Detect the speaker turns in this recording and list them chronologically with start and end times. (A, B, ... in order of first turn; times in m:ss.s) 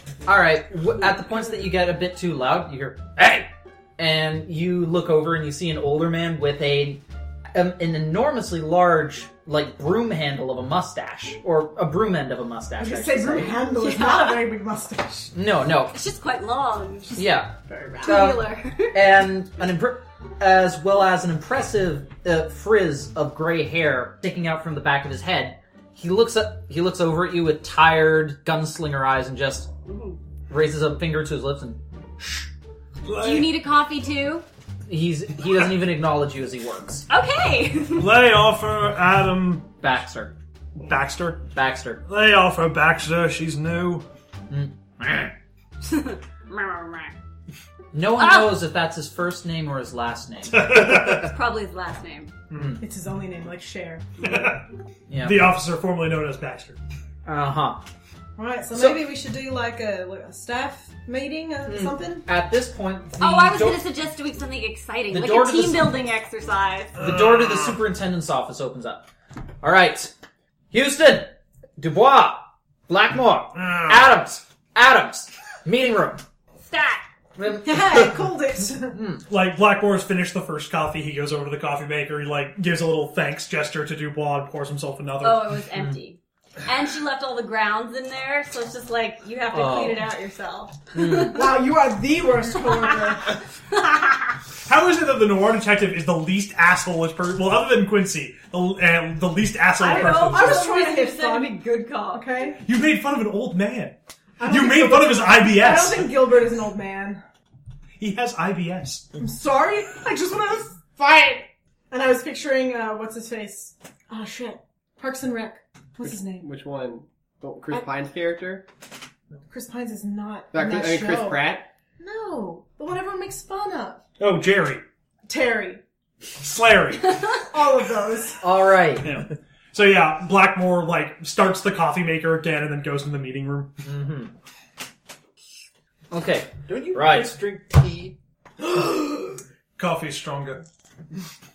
0:00.3-0:13.6 A
0:12.8-0:15.3 B
0:13.7-0:14.5 C
0:15.3-0:16.0 A
0:15.9-0:19.0 C
0:17.2-0:29.7 A
0:29.9-0:30.2 C
0:30.5-0:31.8 A
0:33.0-0:33.6 D
0:33.1-0:34.5 C
0:34.9-0:37.1 A
0:37.1-0:38.1 C
0:38.0-0:39.7 D
0:39.8-0:40.3 A
0:40.9-0:41.5 D
0:41.5-0:42.0 A
0:42.1-0:44.1 D
0:44.5-0:45.3 A
0:45.8-0:47.1 C
0:47.9-0:51.0 A
0:48.2-0:48.5 C
0:50.5-0:51.3 D
0:50.9-0:52.3 C
0:52.5-0:52.8 D
0:52.5-0:52.8 A
0:52.8-0:54.3 B
0:54.2-0:54.7 D
0:55.1-0:55.5 A
0:55.2-0:56.8 D
0:57.3-0:57.8 A
0:58.4-1:02.3 B
1:01.6-1:03.8 A
1:03.2-1:07.0 C
1:05.1-1:06.0 A
1:07.0-1:07.8 D
1:07.0-1:09.1 A
1:09.6-1:10.1 A
1:10.7-1:16.2 A
1:13.6-1:14.1 D
1:16.6-1:17.0 C
1:17.4-1:19.2 A
1:17.6-1:19.0 B
1:19.3-1:25.6 D
1:25.2-1:31.3 C
1:25.7-1:26.0 A
1:29.5-1:30.1 A
1:30.9-1:31.5 A
1:31.3-1:33.4 B
1:32.6-1:33.1 C
1:34.7-1:40.7 D
1:39.8-1:42.3 C
1:40.1-1:42.6 B
1:42.6-1:46.3 D
1:44.4-1:47.2 B
1:48.0-1:49.1 D
1:49.2-1:56.5 B
1:56.4-1:58.6 E
1:59.5-2:01.4 B
2:00.5-2:01.7 E
2:02.0-2:04.0 B
2:04.2-2:04.8 D
2:05.3-2:05.8 B
2:06.4-2:07.2 D
2:07.5-2:08.4 B
2:08.4-2:09.1 A
2:09.0-2:13.7 D
2:13.8-2:14.3 A
2:16.1-2:17.4 A
2:16.7-2:18.9 F
2:19.8-2:20.6 D